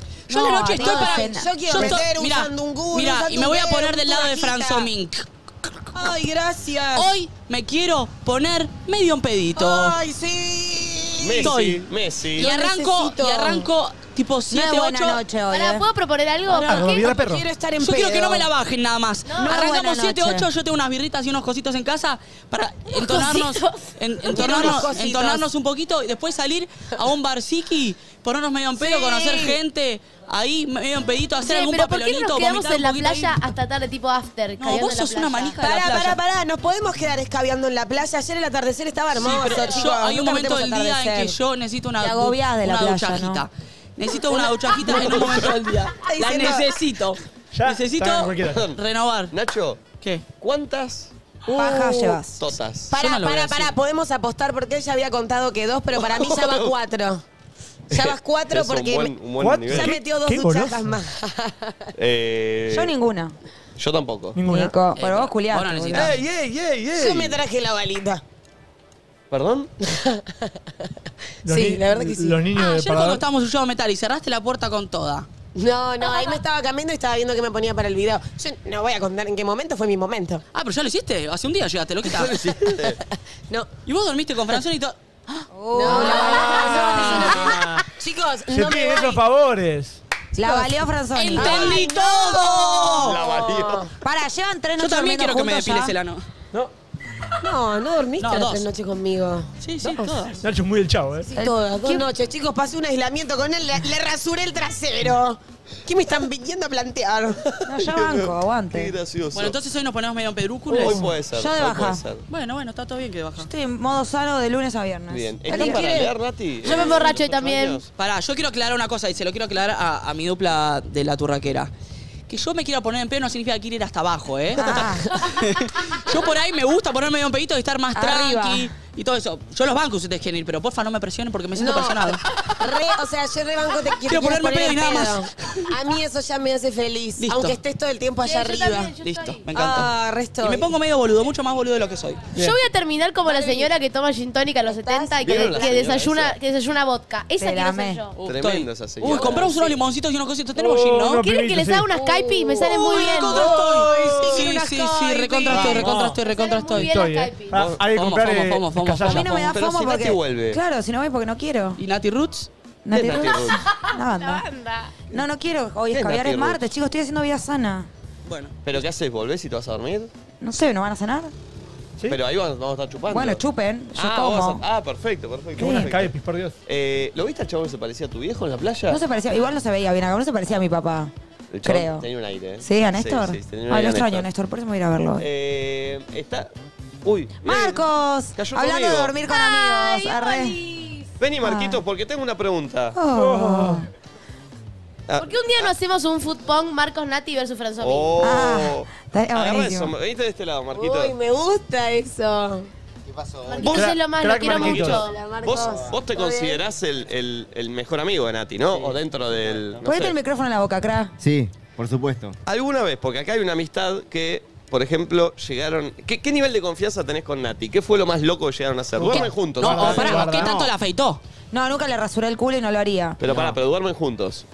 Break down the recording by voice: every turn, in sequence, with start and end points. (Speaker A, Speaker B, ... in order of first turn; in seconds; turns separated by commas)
Speaker A: 0.3-2.0, Speaker B: 0.3-6.2, Speaker C: 0.8-4.9, Speaker C: 5.9-7.1, Speaker B: 7.0-10.0, Speaker C: 9.6-11.5, Speaker D: 11.2-12.5, Speaker B: 11.4-11.8, Speaker B: 12.3-15.2, Speaker C: 12.4-13.7, Speaker A: 14.5-15.9, Speaker E: 15.5-17.1, Speaker F: 16.6-17.5, Speaker C: 17.0-18.5, Speaker B: 17.8-33.4, Speaker A: 19.3-20.5, Speaker C: 23.1-23.4, Speaker E: 23.2-23.7, Speaker C: 24.3-25.5, Speaker C: 28.8-29.6, Speaker E: 31.4-35.6, Speaker B: 34.6-36.2, Speaker C: 35.6-40.2, Speaker B: 39.1-49.4, Speaker A: 39.6-41.4, Speaker A: 42.0-43.4, Speaker C: 44.3-46.7, Speaker D: 45.0-45.4, Speaker F: 47.5-48.6, Speaker D: 48.4-48.8, Speaker D: 49.3-49.8, Speaker B: 50.0-50.2, Speaker D: 50.4-51.1, Speaker C: 51.5-52.2, Speaker A: 51.5-52.4, Speaker D: 52.4-52.9, Speaker C: 52.9-57.2, Speaker B: 53.0-53.8, Speaker D: 56.0-56.7, Speaker C: 57.9-61.9, Speaker D: 57.9-60.0, Speaker F: 59.4-61.0, Speaker D: 62.0-62.9, Speaker A: 62.7-63.4, Speaker D: 63.8-64.4, Speaker F: 64.3-64.8, Speaker A: 64.4-66.2, Speaker B: 65.0-66.1, Speaker D: 65.9-67.4, Speaker C: 66.9-68.2, Speaker D: 69.3-69.7, Speaker C: 69.9-70.5, Speaker F: 71.4-73.2, Speaker C: 71.5-72.4, Speaker B: 72.5-75.3, Speaker C: 75.5-80.4, Speaker B: 80.5-82.4, Speaker D: 82.1-83.0, Speaker C: 82.6-83.0, Speaker B: 83.9-85.5, Speaker A: 85.5-87.5, Speaker C: 85.7-89.2, Speaker D: 86.2-87.0, Speaker F: 87.5-87.8, Speaker F: 88.5-90.0, Speaker A: 90.3-91.9, Speaker B: 91.2-93.1, Speaker C: 91.3-93.9, Speaker D: 93.0-93.9, Speaker A: 94.0-96.0, Speaker B: 94.8-96.2, Speaker C: 97.4-100.2, Speaker B: 98.2-98.7, Speaker B: 99.6-100.4, Speaker F: 100.4-101.3, Speaker C: 101.3-107.5, Speaker A: 101.4-102.1, Speaker A: 107.7-108.9, Speaker D: 107.8-109.6, Speaker B: 109.3-111.0, Speaker D: 110.8-112.3, Speaker F: 110.8-111.1, Speaker A: 110.8-112.0, Speaker B: 112.3-113.5, Speaker A: 113.4-116.0, Speaker D: 115.1-117.9, Speaker B: 115.5-116.1, Speaker E: 116.7-117.8, Speaker B: 116.7-117.1, Speaker B: 118.0-121.7, Speaker B: 122.3-132.2, Speaker A: 124.6-125.1, Speaker C: 124.7-125.3, Speaker A: 128.0-128.7, Speaker C: 131.6-139.0, Speaker B: 134.1-135.7, Speaker B: 137.2-137.6, Speaker E: 138.2-139.4, Speaker B: 139.0-142.3, Speaker C: 139.5-140.7, Speaker E: 142.3-148.2, Speaker C: 143.2-143.7, Speaker C: 144.7-145.9, Speaker D: 145.2-146.4, Speaker A: 147.4-148.0, Speaker B: 148.2-151.2, Speaker D: 148.3-149.5, Speaker C: 149.2-149.5, Speaker F: 150.6-151.9, Speaker E: 151.2-153.5, Speaker C: 151.9-155.7, Speaker B: 152.7-156.9, Speaker F: 153.5-154.4, Speaker F: 155.5-156.2, Speaker E: 155.5-157.6, Speaker F: 156.8-159.4, Speaker D: 157.5-157.9, Speaker B: 157.9-159.3, Speaker A: 159.0-161.8, Speaker D: 159.3-160.6, Speaker B: 161.8-162.5, Speaker A: 162.9-164.4, Speaker D: 162.9-163.6, Speaker E: 164.1-164.9, Speaker A: 165.1-167.9, Speaker D: 165.9-166.7, Speaker B: 168.3-168.7, Speaker D: 168.7-170.1, Speaker A: 170.4-171.3, Speaker D: 172.1-173.4, Speaker A: 173.1-174.6, Speaker D: 173.9-179.0, Speaker F: 175.6-176.6, Speaker A: 175.6-175.9, Speaker A: 178.9-181.1, Speaker D: 181.5-184.3, Speaker A: 181.6-182.1, Speaker A: 182.6-185.3, Speaker D: 185.2-186.5, Speaker D: 187.0-189.2, Speaker A: 187.4-190.6, Speaker E: 189.3-191.1, Speaker D: 191.2-193.0, Speaker A: 191.4-191.8, Speaker A: 192.9-193.9, Speaker F: 193.2-193.9, Speaker D: 195.1-195.7, Speaker E: 195.2-198.2, Speaker D: 197.8-201.2, Speaker A: 198.2-199.9, Speaker C: 200.7-202.7, Speaker G: 203.2-203.6, Speaker E: 203.5-205.1, Speaker D: 203.6-210.2, Speaker F: 203.7-205.0, Speaker C: 205.0-206.6, Speaker G: 208.7-209.8, Speaker A: 209.8-211.1, Speaker G: 211.2-212.4, Speaker D: 212.5-220.4, Speaker F: 219.0-220.6, Speaker B: 219.6-221.2, Speaker G: 220.3-220.7, Speaker A: 221.5-223.2, Speaker D: 223.2-224.4, Speaker G: 223.2-223.6